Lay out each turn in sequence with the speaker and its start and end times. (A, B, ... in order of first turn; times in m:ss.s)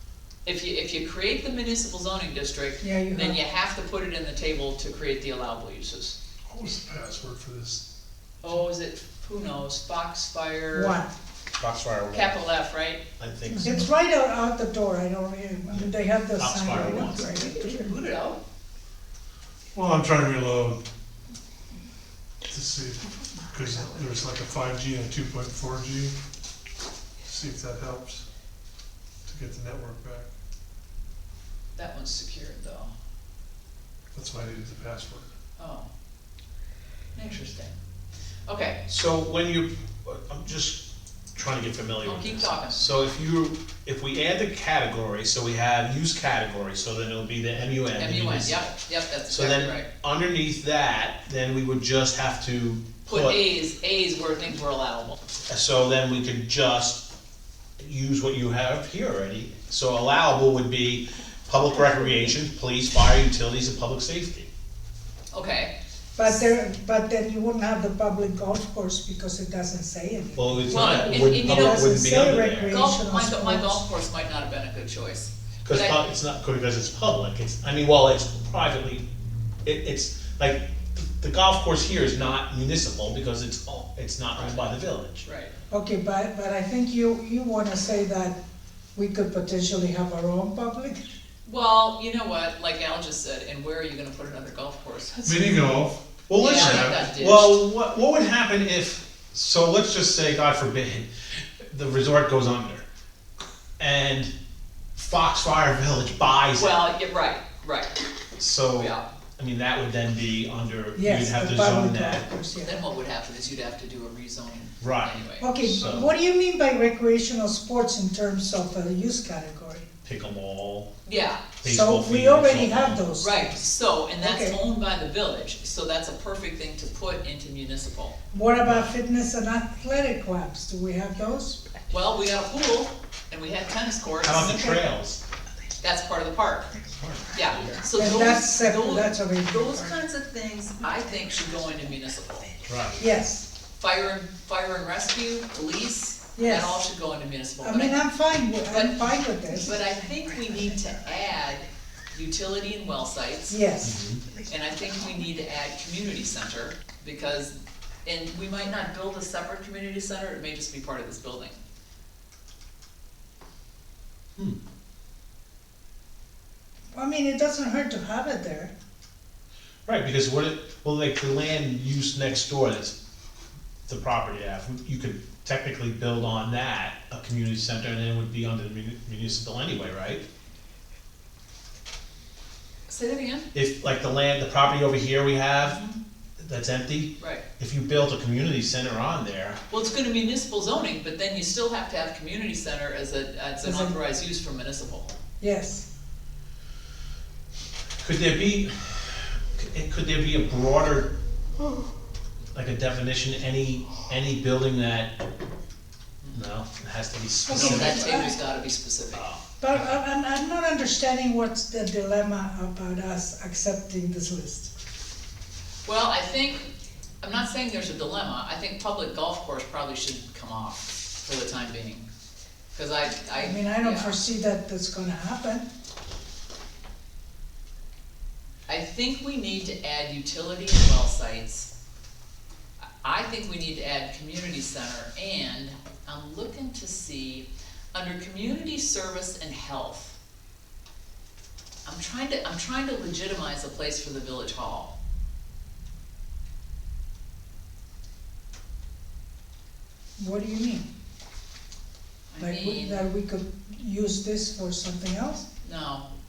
0:00.4-0:06.2 A
0:02.8-0:03.4 B
0:06.5-0:07.8 C
0:08.4-0:11.0 A
0:10.7-0:11.1 B
0:11.6-0:12.4 D
0:12.1-0:13.0 A
0:13.2-0:13.9 D
0:13.6-0:17.9 B
0:15.7-0:17.3 D
0:17.0-0:18.4 A
0:19.7-0:20.8 C
0:22.5-0:26.1 C
0:27.2-0:28.2 C
0:29.2-0:30.2 C
0:31.7-0:32.9 A
0:34.1-0:35.3 C
0:35.6-0:35.9 A
0:37.1-0:37.7 A
0:38.5-0:38.8 A
0:38.9-0:48.7 D
0:42.0-0:42.9 A
0:48.0-0:49.9 A
0:49.3-0:53.4 D
0:53.0-0:55.2 A
0:55.5-0:57.0 D
0:57.8-1:04.5 D
1:05.3-1:05.7 A
1:06.2-1:13.8 B
1:10.4-1:12.8 D
1:10.7-1:16.0 A
1:15.6-1:19.0 D
1:19.6-1:25.2 D
1:24.4-1:24.6 A
1:25.2-1:25.5 A
1:25.7-1:28.4 B
1:28.9-1:31.0 B
1:31.4-1:35.7 A
1:35.2-1:37.0 C
1:36.3-1:41.1 D
1:36.3-1:37.6 A
1:41.7-1:42.8 D
1:43.8-1:44.3 D
1:45.0-1:46.8 D
1:46.6-1:48.0 A
1:48.4-1:52.3 D
1:48.8-1:49.0 A
1:51.0-1:52.8 B
1:52.6-1:55.5 A
1:54.8-1:56.1 D
1:55.4-1:59.9 B
2:00.0-2:00.9 D
2:01.0-2:01.4 A
2:01.6-2:03.0 D
2:01.6-2:03.6 B
2:03.2-2:08.2 A
2:04.2-2:04.6 B
2:08.3-2:11.6 B
2:11.9-2:14.8 A
2:14.2-2:15.2 D
2:15.8-2:16.7 A
2:17.0-2:17.8 D
2:17.3-2:22.6 A
2:17.9-2:20.0 B
2:22.6-2:23.0 D
2:23.0-2:23.4 B
2:23.8-2:28.0 A
2:26.4-2:26.8 B
2:27.6-2:29.7 B
2:28.7-2:33.6 A
2:33.5-2:34.0 B
2:33.8-2:34.2 D
2:34.4-2:37.5 A
2:38.0-2:41.6 A
2:46.9-2:48.7 B
2:49.9-2:52.9 D
2:53.9-3:00.2 D
3:02.9-3:03.5 A
3:03.5-3:05.8 D
3:05.7-3:05.9 A
3:06.4-3:09.6 D
3:09.7-3:15.2 A
3:13.6-3:14.0 B
3:15.4-3:15.8 B
3:18.0-3:21.1 D
3:22.5-3:25.1 D
3:26.2-3:26.5 A
3:26.3-3:28.1 D
3:27.5-3:28.4 B
3:27.5-3:29.2 A
3:29.1-3:29.9 D
3:29.6-3:34.7 B
3:35.8-3:36.7 A
3:37.2-3:42.0 A
3:42.7-3:44.1 A
3:43.4-3:45.7 B
3:48.7-3:51.7 A
3:53.0-4:00.2 A
4:01.8-4:04.9 A
4:10.2-4:10.9 B
4:12.3-4:13.1 A
4:12.4-4:15.4 B
4:15.6-4:16.1 A